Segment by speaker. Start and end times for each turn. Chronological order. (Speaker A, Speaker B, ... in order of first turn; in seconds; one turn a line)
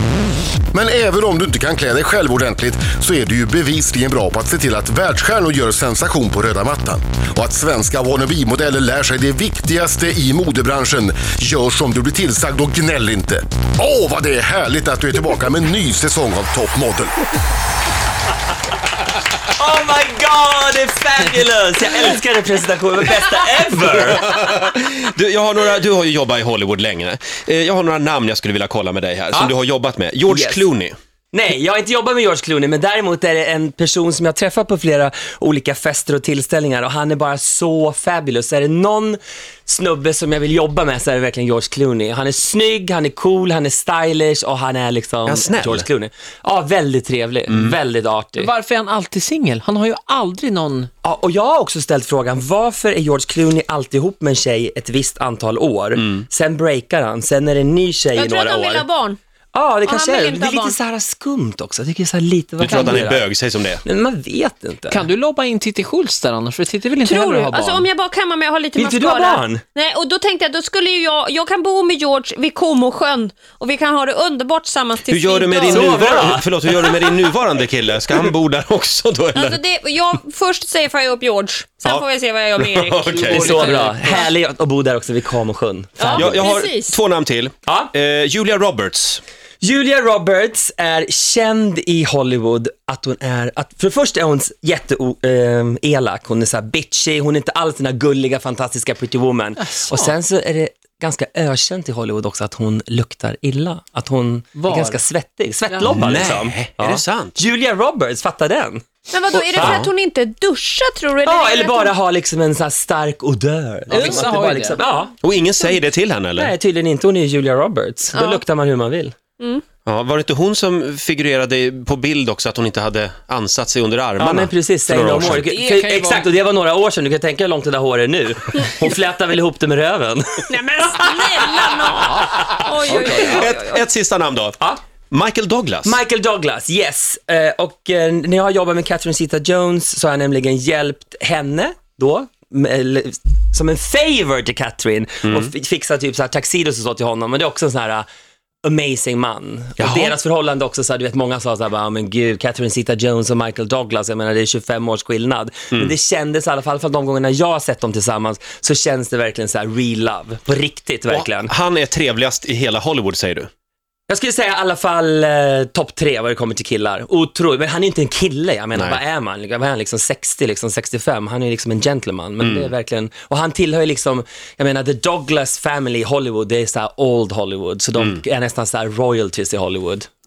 Speaker A: 0.7-17.1
Speaker B: 19.5-24.2
Speaker C: 24.0-30.9
Speaker B: 30.3-30.7
Speaker B: 31.3-48.5
Speaker C: 45.2-45.9
Speaker C: 47.5-47.8
Speaker D: 48.4-50.9
Speaker B: 51.0-58.9
Speaker E: 58.1-59.2
Speaker B: 59.5-63.2
Speaker E: 59.8-60.8
Speaker C: 62.6-63.8
Speaker B: 63.8-65.0
Speaker D: 64.9-67.9
Speaker E: 67.0-75.9
Speaker B: 68.8-69.6
Speaker C: 75.1-79.6
Speaker B: 75.7-76.5
Speaker E: 79.3-84.3
Speaker C: 82.6-83.7
Speaker D: 83.2-84.0
Speaker B: 83.3-86.4
Speaker E: 86.0-86.9
Speaker C: 86.1-89.2
Speaker B: 89.6-108.8
Speaker D: 99.6-100.1
Speaker D: 104.5-105.0
Speaker C: 105.8-107.4
Speaker E: 109.1-111.9
Speaker B: 109.5-109.8
Speaker C: 109.5-109.9
Speaker B: 111.2-115.1
Speaker D: 113.9-114.8
Speaker C: 115.2-116.5
Speaker B: 116.3-119.1
Speaker E: 118.1-118.4
Speaker C: 119.8-125.5
Speaker B: 124.2-130.4
Speaker D: 125.2-126.3
Speaker E: 130.5-133.8
Speaker D: 132.2-133.2
Speaker B: 132.4-133.4
Speaker C: 132.8-134.6
Speaker C: 135.1-136.0
Speaker B: 135.8-148.1
Speaker C: 145.2-145.5
Speaker B: 148.6-161.5
Speaker C: 149.8-150.1
Speaker C: 161.1-163.5
Speaker B: 164.1-180.1
Speaker C: 168.7-169.0
Speaker C: 172.4-172.7